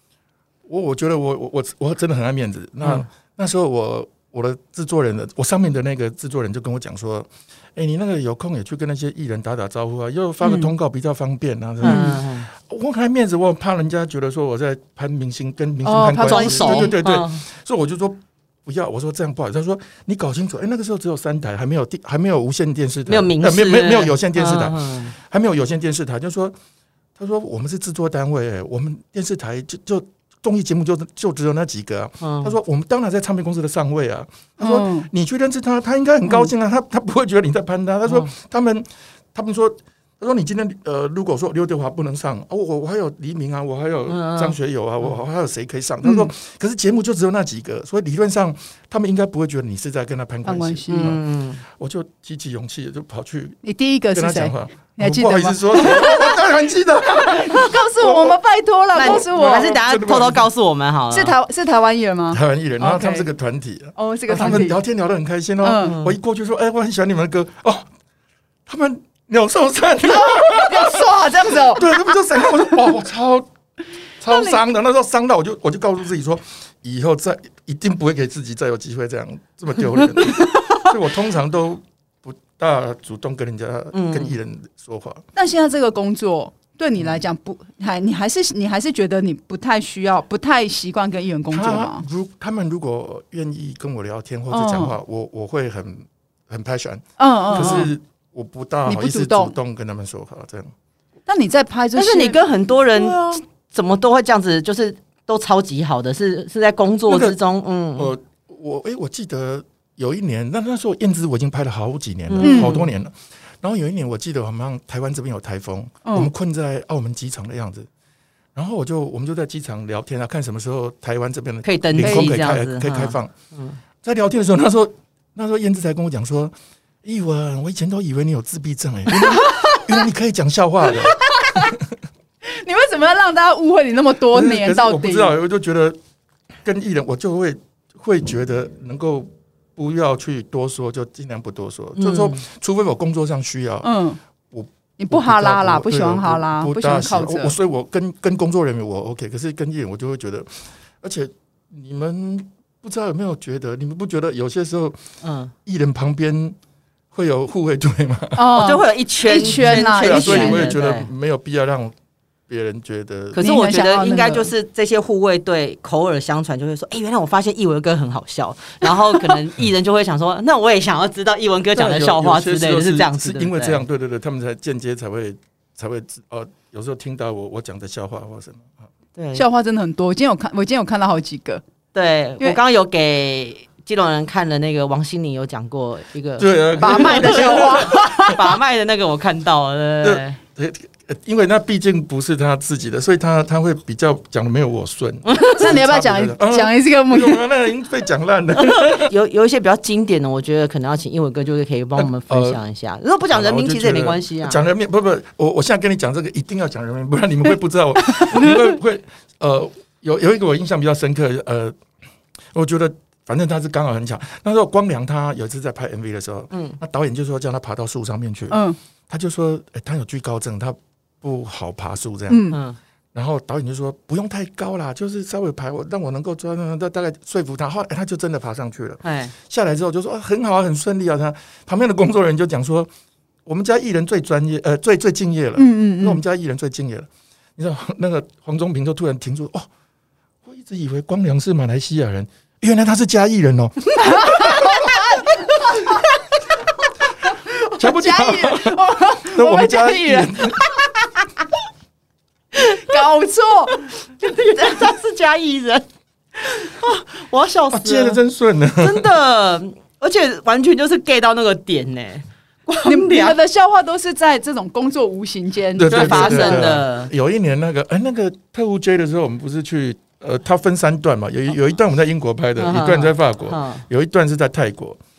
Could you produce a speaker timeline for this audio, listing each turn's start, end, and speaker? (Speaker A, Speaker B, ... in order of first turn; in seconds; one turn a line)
Speaker A: 0.7-26.6
Speaker B: 10.4-10.7
Speaker C: 11.8-12.5
Speaker B: 11.8-12.2
Speaker B: 15.8-16.9
Speaker C: 16.2-17.4
Speaker C: 23.1-25.1
Speaker A: 27.2-53.6
Speaker C: 32.2-32.5
Speaker B: 34.6-35.1
Speaker C: 44.1-44.6
Speaker B: 46.0-46.3
Speaker B: 50.5-51.1
Speaker C: 50.9-51.6
Speaker B: 53.6-56.5
Speaker A: 54.1-58.4
Speaker B: 57.0-59.7
Speaker C: 58.9-61.4
Speaker A: 59.0-60.5
Speaker B: 61.1-63.3
Speaker A: 62.3-67.9
Speaker B: 64.0-64.8
Speaker B: 65.6-66.0
Speaker C: 65.8-66.2
Speaker A: 68.7-71.1
Speaker B: 70.1-72.1
Speaker A: 71.7-73.5
Speaker A: 74.2-85.2
Speaker B: 80.4-80.8
Speaker C: 83.9-84.3
Speaker B: 85.4-92.0
Speaker A: 91.5-100.7
Speaker B: 94.5-95.0
Speaker B: 97.2-97.9
Speaker C: 97.5-97.9
Speaker B: 98.9-99.6
Speaker B: 101.3-103.4
Speaker C: 102.0-108.1
Speaker A: 107.1-107.4
Speaker A: 108.0-117.9
Speaker C: 112.3-112.9
Speaker B: 112.4-112.8
Speaker B: 116.0-116.3
Speaker A: 118.5-123.3
Speaker C: 121.6-123.8
Speaker B: 122.0-122.3
Speaker A: 124.0-131.8
Speaker B: 129.1-130.0
Speaker B: 130.9-131.8
Speaker B: 132.4-135.4
Speaker A: 134.3-136.0
Speaker A: 136.6-143.9
Speaker C: 142.0-142.4
Speaker B: 143.8-144.2
Speaker A: 144.5-155.0
Speaker B: 145.0-147.6
Speaker C: 155.2-155.5
Speaker A: 155.7-156.6
Speaker A: 157.1-158.6
Speaker B: 158.3-160.7
Speaker C: 158.6-161.1
Speaker A: 159.4-161.9
Speaker A: 162.5-163.4
Speaker B: 163.3-164.5
Speaker C: 163.3-173.8
Speaker A: 171.8-178.8
Speaker C: 179.2-179.4
Speaker B: 179.3-181.6
Speaker C: 181.9-190.4
Speaker A: 186.4-188.3
Speaker B: 186.8-188.5
Speaker A: 190.0-199.1
Speaker C: 195.3-195.6
Speaker B: 195.3-197.4
Speaker C: 198.6-204.6
Speaker A: 202.0-202.6
Speaker A: 203.3-211.8
Speaker A: 212.5-222.5
Speaker C: 216.5-216.8
Speaker B: 218.5-218.8
Speaker B: 222.3-222.6
Speaker C: 222.5-222.8
Speaker A: 223.1-232.9
Speaker C: 229.0-229.3
Speaker A: 233.5-239.7
Speaker B: 235.6-236.2
Speaker A: 240.4-245.1
Speaker B: 244.0-245.9
Speaker B: 247.4-250.7
Speaker A: 247.8-250.6
Speaker C: 252.6-253.0
Speaker B: 252.7-253.8
Speaker C: 253.7-255.8
Speaker C: 256.4-258.2
Speaker A: 257.7-259.1
Speaker C: 258.8-263.4
Speaker B: 262.9-266.7
Speaker A: 265.8-275.0
Speaker C: 265.9-267.1
Speaker C: 272.6-273.9